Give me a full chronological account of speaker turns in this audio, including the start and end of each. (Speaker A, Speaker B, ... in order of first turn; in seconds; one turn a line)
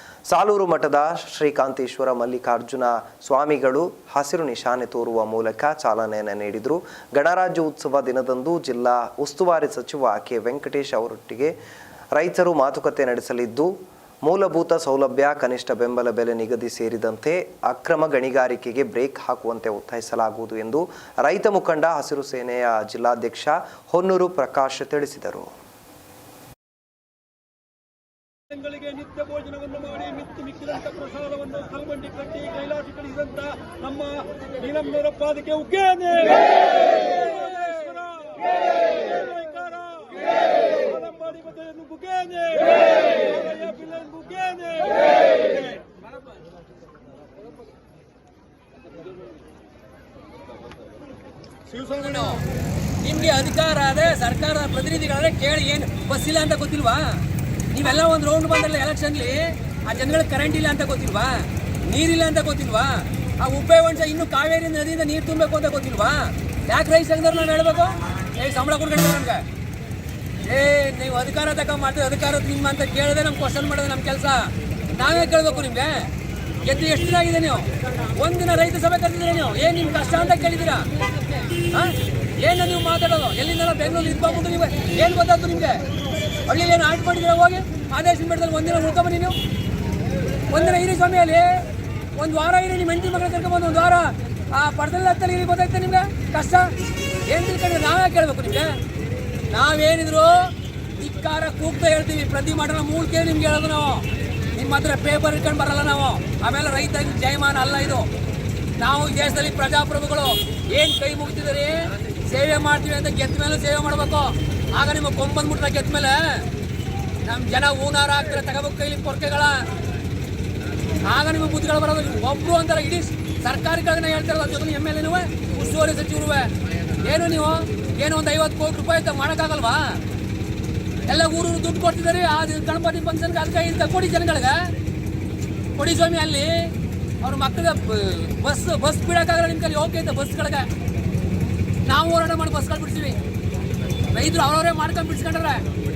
Speaker A: 0.3-11.5
Speaker A: 12.1-25.5
Speaker B: 29.2-35.7
Speaker C: 33.4-33.8
Speaker C: 35.2-38.0
Speaker B: 39.4-39.9
Speaker B: 40.9-42.4
Speaker C: 42.2-42.8
Speaker C: 43.4-43.8
Speaker B: 43.8-44.7
Speaker C: 44.7-45.0
Speaker C: 51.7-52.4
Speaker C: 53.0-69.4
Speaker C: 70.4-76.1
Speaker C: 76.6-80.9
Speaker C: 81.5-85.8
Speaker C: 86.4-89.4
Speaker C: 90.5-96.7
Speaker C: 97.2-98.8
Speaker C: 99.5-108.1
Speaker C: 108.8-116.5
Speaker C: 117.2-119.7
Speaker C: 121.0-130.0
Speaker C: 131.1-134.7
Speaker C: 135.8-140.7
Speaker C: 141.8-143.2
Speaker C: 144.1-145.6